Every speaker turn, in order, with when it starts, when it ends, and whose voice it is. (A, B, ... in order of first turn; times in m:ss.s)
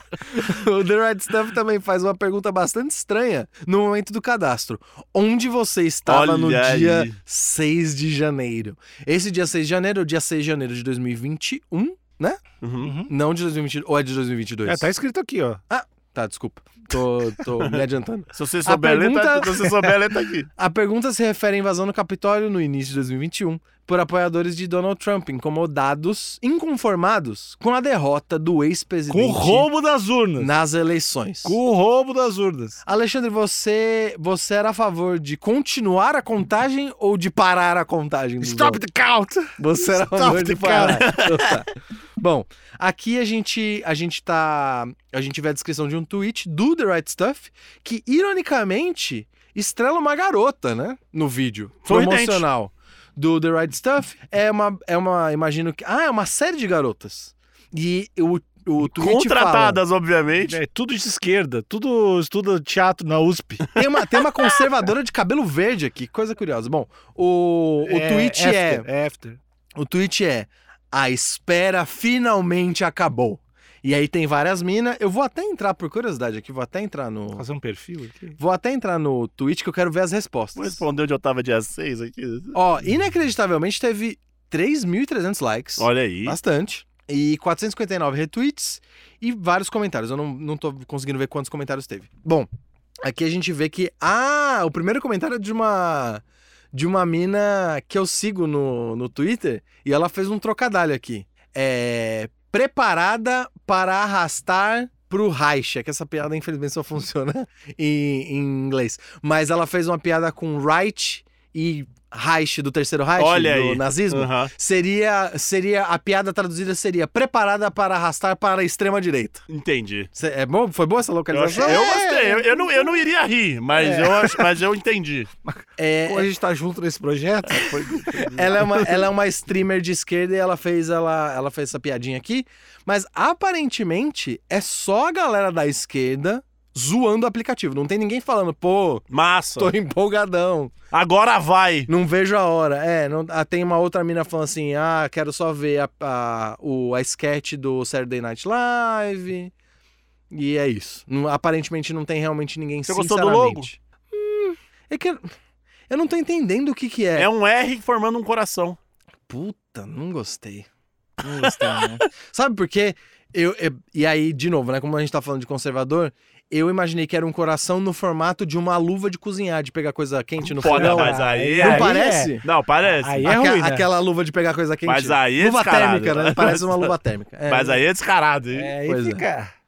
0:00.3-0:12.4 A
0:06.1-0:07.2 B
0:12.6-0:12.9 B
0:12.8-0:13.1 C
0:13.1-0:14.9 A
0:14.6-0:15.6 C
0:15.7-0:19.8 A
0:18.3-0:20.5 B
0:20.6-0:29.7 A
0:29.1-0:30.5 C
0:30.4-0:31.6 A
0:31.4-0:32.8 C
0:32.8-0:38.8 A
0:38.4-0:41.1 C
0:39.6-0:59.8 A
0:40.8-0:41.5 B
0:51.8-0:52.4 B
0:58.9-1:00.6 B
1:00.4-1:03.7 C
1:03.7-1:08.8 A
1:07.8-1:09.4 C
1:09.7-1:17.4 A
1:17.4-1:18.4 C
1:18.4-1:20.8 A
1:20.6-1:22.6 B
1:22.5-1:32.5 A
1:25.8-1:26.4 B
1:33.0-1:59.4 A
1:53.2-1:54.5 B
1:59.5-2:00.1 B
2:00.1-2:02.9 A
2:01.3-2:05.3 B
2:03.8-2:04.4 A
2:05.5-2:08.2 C
2:05.8-2:06.3 A
2:07.5-2:08.8 B
2:08.3-2:19.0 A
2:19.1-2:19.7 B
2:19.6-2:20.7 A
2:20.9-2:21.9 B
2:21.9-2:29.5 A
2:30.3-2:35.2 A
2:32.9-2:33.7 B
2:35.9-2:37.3 A
2:37.2-2:38.8 B
2:39.3-2:40.7 A
2:41.2-2:52.4 A
2:41.2-2:42.0 B
2:50.6-2:53.3 B
2:50.6-2:52.4 C
2:53.0-2:53.9 C
2:53.2-2:57.8 A
2:54.8-2:56.9 B
2:57.5-2:58.7 B
2:58.5-2:59.5 C
2:58.8-2:59.2 A